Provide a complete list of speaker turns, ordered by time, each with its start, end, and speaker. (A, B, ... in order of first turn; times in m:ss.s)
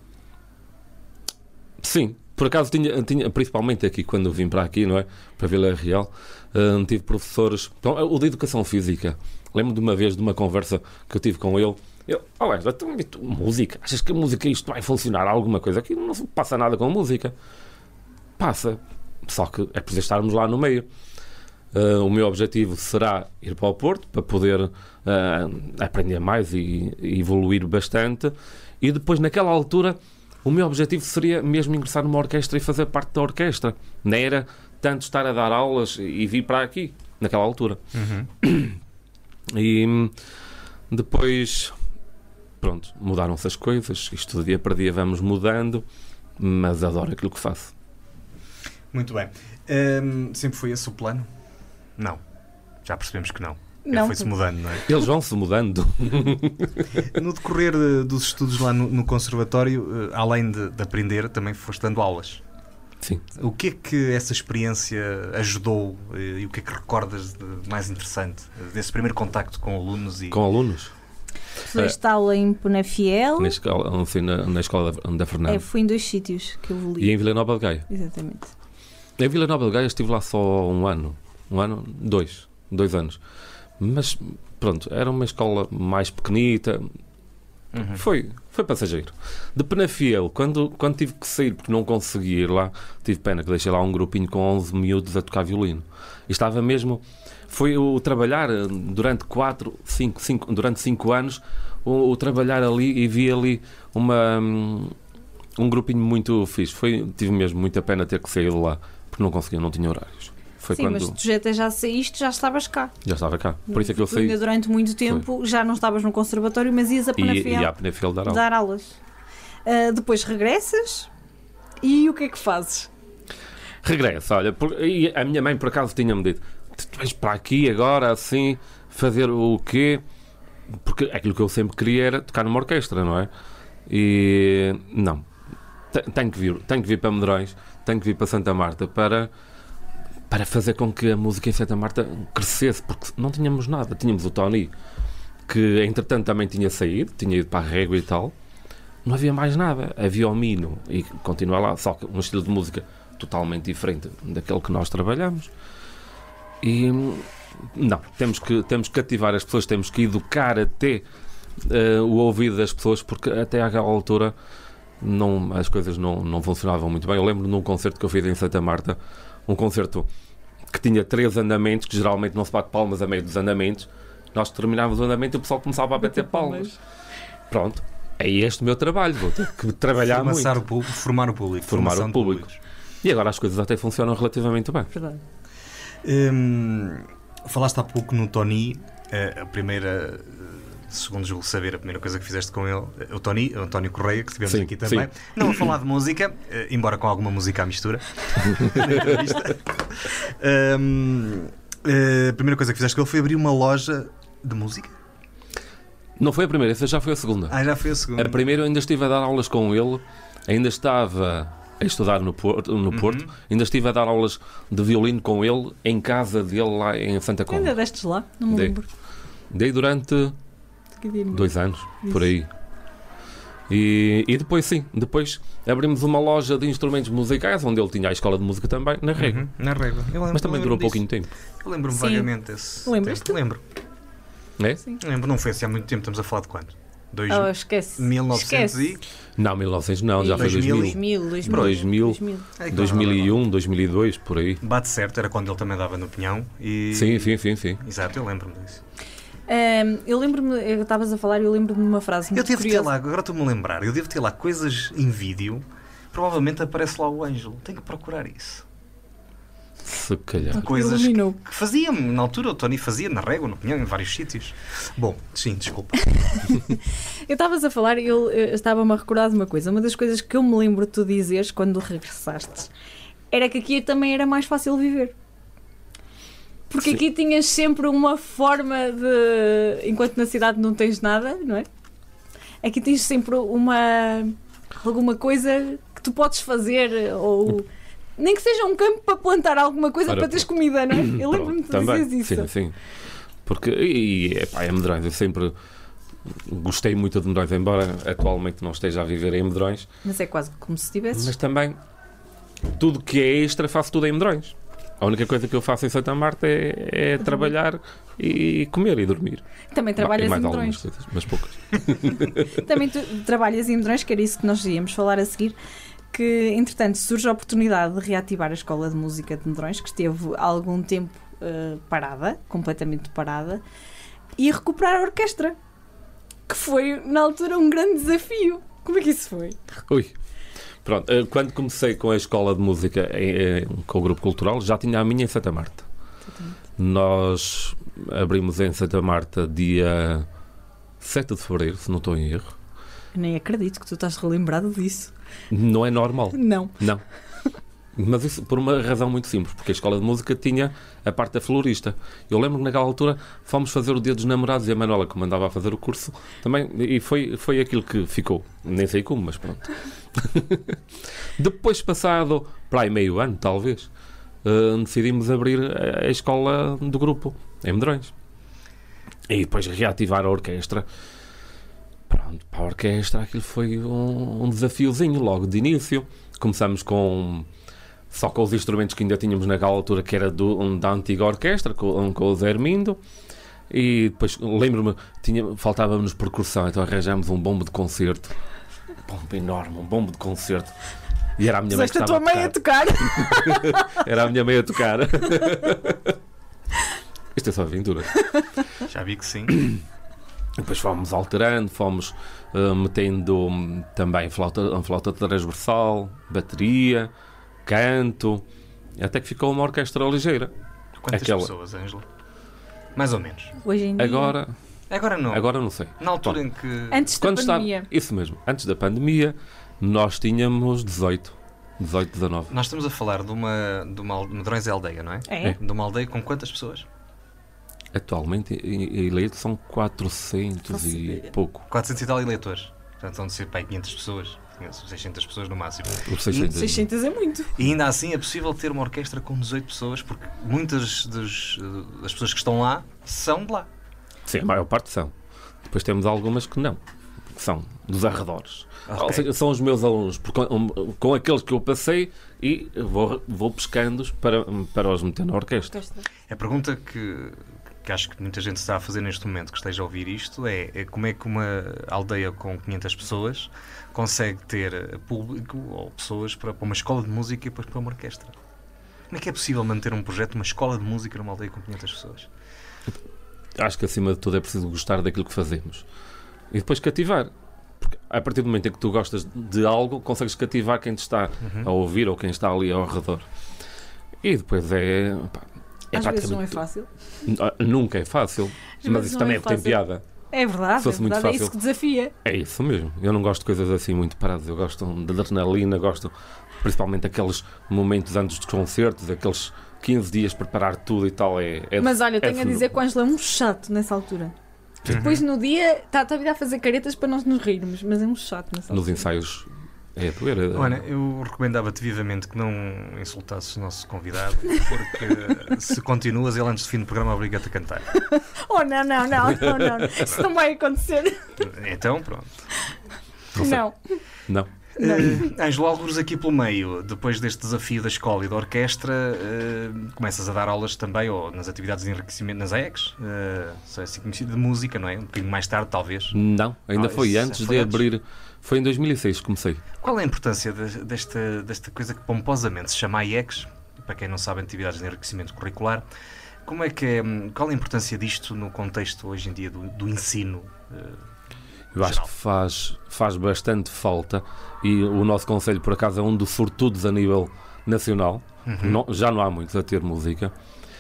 0:01.8-0:17.4 A
0:18.4-0:20.9 A
0:21.7-0:37.8 A
0:37.9-0:38.3 B
0:38.4-0:38.8 A
0:39.5-0:40.1 A
0:40.9-0:41.8 A
0:42.6-0:45.8 A
0:46.4-0:47.7 A
0:48.9-0:51.3 B
0:52.8-0:54.9 B
0:53.9-0:54.3 C
0:54.9-0:56.9 A
0:57.1-1:02.4 B
1:03.4-1:10.4 B
1:10.3-1:10.9 A
1:11.7-1:13.6 C
1:13.4-1:15.6 A
1:15.5-1:17.2 C
1:17.0-1:17.8 A
1:17.9-1:18.5 C
1:19.2-1:23.2 A
1:23.8-1:26.9 A
1:27.7-1:28.0 B
1:27.9-1:45.0 A
1:45.6-1:51.2 A
1:50.7-1:52.9 C
1:53.0-1:54.4 A
1:53.7-1:57.7 C
1:57.2-1:58.4 A
1:58.2-1:59.0 C
1:59.7-2:01.1 C
2:01.8-2:02.9 C
2:03.8-2:10.0 A
2:10.7-2:13.3 A
2:13.9-2:15.3 A
2:15.9-2:19.3 A
2:20.3-2:24.7 A
2:25.5-2:28.3 A
2:29.0-2:35.5 A
2:36.6-2:41.0 A
2:41.6-2:44.3 A
2:45.0-2:50.1 A
2:50.7-2:56.8 A
2:56.0-2:56.8 C
2:57.5-3:00.6 A
3:00.0-3:02.6 B
3:01.7-3:02.5 A
3:03.0-3:04.9 A
3:04.9-3:05.2 C
3:06.0-3:25.0 B
3:14.5-3:15.7 A
3:18.5-3:19.3 A
3:26.2-3:27.6 A
3:27.5-3:28.4 B
3:28.2-3:37.8 A
3:32.9-3:33.3 B
3:37.5-3:38.9 C
3:38.5-3:38.8 A
3:39.5-3:40.4 A
3:41.0-3:42.3 C
3:41.3-3:42.5 A
3:43.7-3:49.4 A
3:49.2-3:51.0 B
3:50.3-3:51.3 A
3:51.6-3:53.6 B
3:51.9-3:52.3 C
3:52.8-3:53.4 C
3:54.6-3:54.9 A
3:55.0-3:59.0 B
3:57.3-3:59.0 C
3:59.4-4:04.6 A
4:00.2-4:02.5 C
4:00.4-4:01.8 B
4:02.6-4:03.4 B
4:04.6-4:08.8 B
4:06.9-4:07.8 A
4:09.5-4:12.9 C
4:12.4-4:18.6 B
4:19.8-4:20.6 A
4:20.5-4:26.1 B
4:20.5-4:21.4 C
4:26.2-4:32.7 C
4:33.3-4:35.1 C
4:36.7-4:41.7 C
4:42.6-4:52.5 C
4:50.1-4:52.8 A
4:53.4-4:55.6 A
4:56.3-4:59.9 A
5:00.0-5:01.3 C
5:01.1-5:01.8 A
5:02.6-5:09.4 A
5:07.2-5:07.5 C
5:09.7-5:10.8 C
5:10.0-5:12.6 A
5:12.1-5:15.6 C
5:16.1-5:23.6 C
5:24.4-5:25.6 C
5:26.5-5:29.6 C
5:29.9-5:30.1 A
5:30.8-5:35.9 A
5:36.3-5:36.6 C
5:36.8-5:40.3 A
5:41.0-5:42.6 A
5:43.2-5:45.1 C
5:45.5-5:47.0 A
5:46.3-5:46.8 C
5:48.0-6:00.8 A
6:01.4-6:03.9 A
6:04.4-6:08.1 A
6:09.3-6:10.9 A
6:12.1-6:17.5 A
6:18.1-6:23.0 A
6:23.7-6:28.4 A
6:29.1-6:30.8 A
6:31.4-6:36.2 A
6:31.7-6:33.9 C
6:37.3-6:38.1 A
6:38.9-6:39.7 B
6:40.6-6:47.1 A
6:47.6-6:48.4 A
6:49.0-6:50.5 A
6:51.0-6:52.0 B
6:51.1-6:51.5 A
6:53.0-6:53.6 B
6:53.6-6:54.4 C
6:54.0-6:54.5 A
6:54.9-6:57.1 B
6:55.3-6:56.4 A
6:56.9-6:57.9 C
6:57.2-7:02.5 A
7:02.5-7:06.9 B
7:05.3-7:05.6 C
7:07.9-7:11.7 A
7:10.7-7:11.3 C
7:11.7-7:16.1 B
7:16.1-7:16.9 A
7:16.3-7:17.5 C
7:17.6-7:23.7 B
7:24.3-7:25.1 A
7:25.7-7:26.8 A
7:27.3-7:35.8 A
7:28.9-7:29.3 B
7:35.8-7:36.0 C
7:36.3-7:48.4 B
7:49.1-7:52.3 B
7:53.6-7:55.9 A
7:56.5-8:03.3 A
8:01.4-8:01.7 B
8:04.2-8:06.6 A
8:05.9-8:06.9 C
8:07.2-8:10.0 A
8:08.8-8:12.1 C
8:10.8-8:11.6 A
8:12.2-8:22.7 A
8:21.8-8:24.3 C
8:24.9-8:25.2 B
8:24.9-8:29.1 C
8:28.7-8:30.9 A
8:30.5-8:37.9 B
8:38.0-8:41.3 C
8:39.4-8:40.0 A
8:41.4-8:42.3 B
8:43.4-8:43.6 A
8:43.4-8:44.0 C
8:44.3-8:45.2 A
8:44.8-8:56.2 B
8:44.8-8:45.3 C
8:56.1-8:59.6 A
8:56.7-8:57.8 B
8:59.8-9:05.9 B
9:06.5-9:11.0 B
9:11.7-9:20.3 A
9:11.8-9:12.1 B
9:18.4-9:18.8 B